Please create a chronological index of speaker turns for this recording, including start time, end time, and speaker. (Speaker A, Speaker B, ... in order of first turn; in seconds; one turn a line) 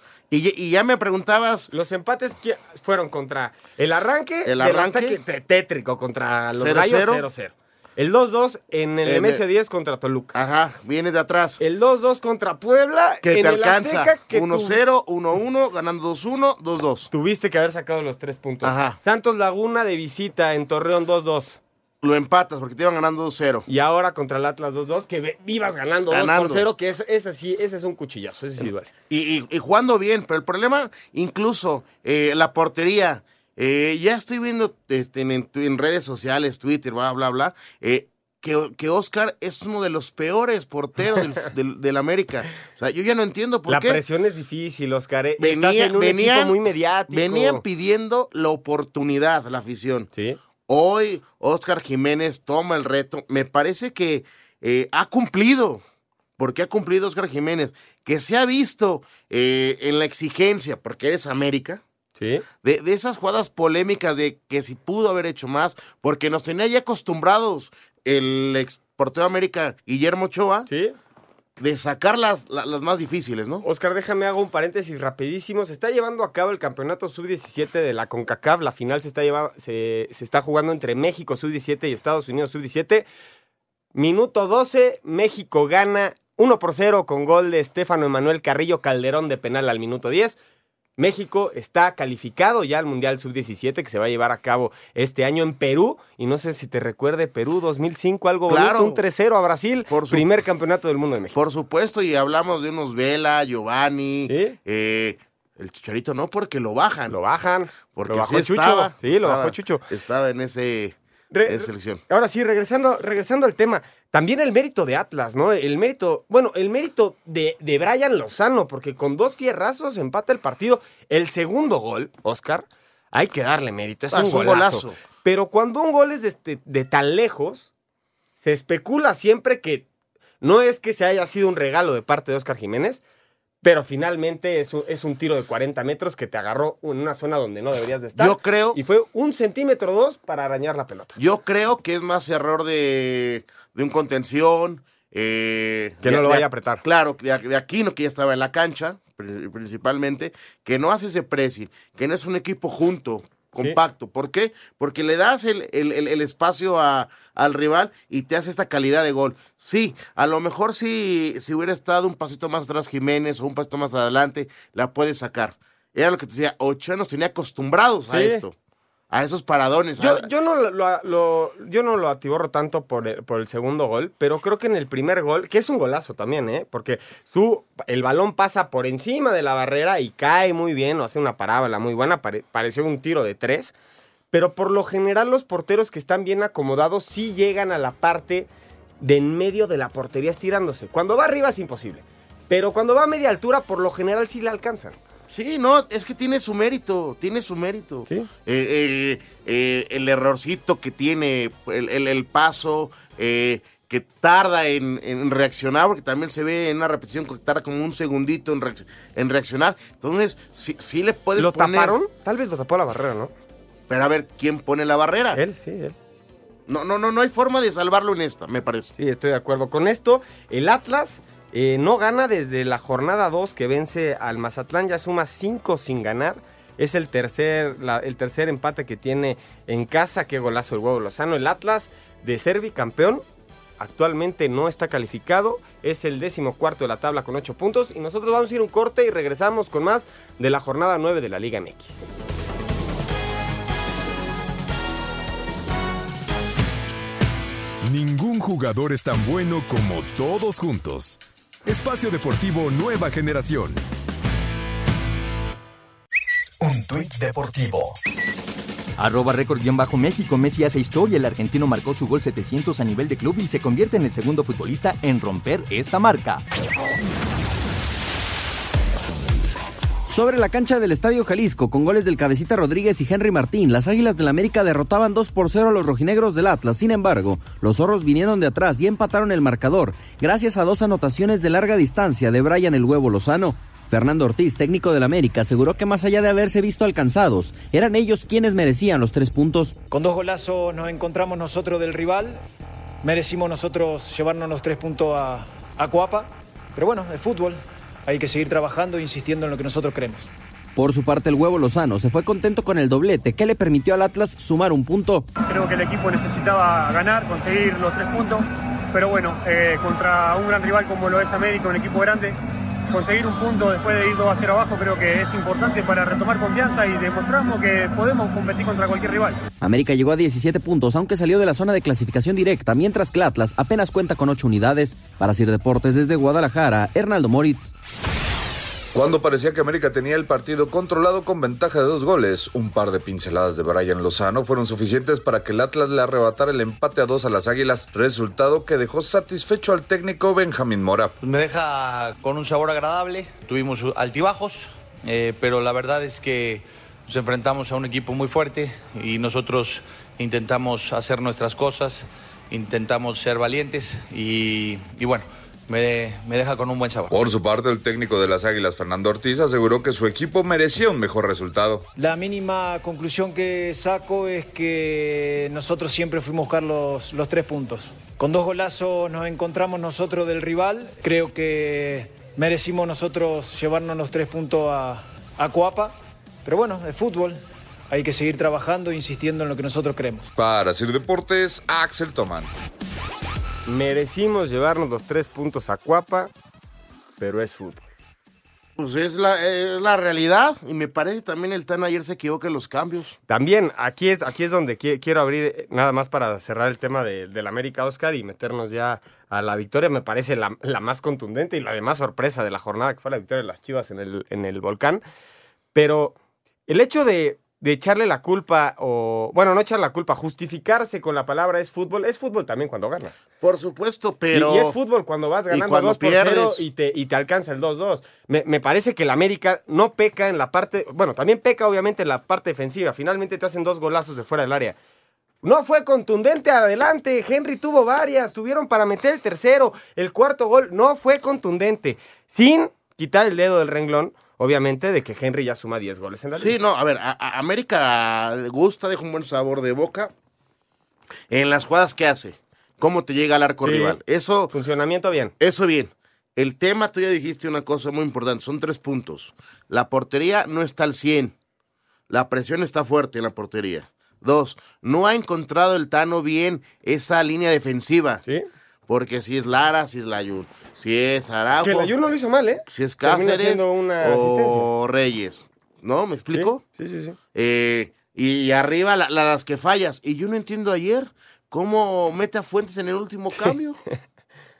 Speaker A: 0.3-1.7
Speaker B: 1.7-10.3
Speaker A: 4.5-5.2
Speaker A: 6.6-7.2
Speaker A: 9.0-9.4
Speaker A: 10.3-11.6
Speaker B: 11.6-14.8
Speaker A: 13.2-17.1
Speaker B: 17.1-21.6
Speaker A: 18.6-19.0
Speaker A: 22.0-23.6
Speaker B: 23.7-28.9
Speaker A: 26.1-26.6
Speaker A: 29.1-44.0
Speaker B: 43.7-47.6
Speaker A: 45.4-46.6
Speaker A: 47.1-50.1
Speaker A: 50.7-55.8
Speaker A: 56.4-61.8
Speaker B: 62.2-62.5
Speaker A: 62.6-70.7
Speaker B: 70.7-71.0
Speaker A: 71.6-73.6
Speaker B: 73.6-83.1
Speaker B: 84.0-90.4
Speaker B: 91.0-101.4
Speaker A: 98.5-99.0
Speaker A: 99.9-100.3
Speaker A: 101.3-107.2
Speaker B: 104.3-104.6
Speaker B: 107.1-109.8
Speaker A: 107.9-112.0
Speaker B: 111.3-127.7
Speaker A: 124.1-125.0
Speaker B: 128.4-129.9
Speaker B: 130.4-133.0
Speaker B: 133.6-141.2
Speaker A: 138.2-138.8
Speaker A: 141.2-168.6
Speaker B: 146.0-146.8
Speaker B: 168.1-168.4
Speaker A: 169.1-170.3
Speaker B: 170.0-183.7
Speaker B: 184.3-188.5
Speaker B: 189.0-195.0
Speaker A: 195.3-212.0
Speaker B: 211.4-213.3
Speaker A: 213.9-215.4
Speaker B: 215.3-216.0
Speaker A: 216.7-218.9
Speaker B: 219.0-233.2
Speaker B: 233.8-242.0
Speaker C: 247.8-253.8
Speaker D: 256.6-257.9
Speaker D: 259.0-266.4
Speaker E: 270.1-289.8
Speaker F: 289.9-292.4
Speaker F: 293.0-300.3
Speaker E: 300.8-305.2
Speaker G: 305.5-312.4
Speaker G: 312.9-319.4
Speaker E: 319.6-327.7
Speaker H: 328.9-341.1
Speaker I: 341.2-357.1
Speaker H: 357.1-361.9
Speaker F: 362.0-375.9
Speaker F: 376.4-380.3
Speaker H: 380.4-382.5
Speaker B: 383.6-386.3
Speaker B: 387.2-387.9
Speaker A: 388.8-393.1
Speaker B: 393.3-405.0
Speaker B: 405.8-406.1
Speaker B: 406.7-413.2
Speaker A: 413.4-414.8
Speaker B: 414.3-424.8
Speaker A: 415.5-416.6
Speaker B: 425.4-436.6
Speaker A: 436.4-440.1
Speaker A: 441.3-444.5
Speaker B: 443.6-444.0
Speaker B: 444.5-445.3
Speaker A: 445.4-451.3
Speaker A: 452.1-458.2
Speaker A: 458.9-461.9
Speaker B: 461.6-464.7
Speaker A: 462.7-466.6
Speaker B: 466.3-467.2
Speaker A: 467.3-473.8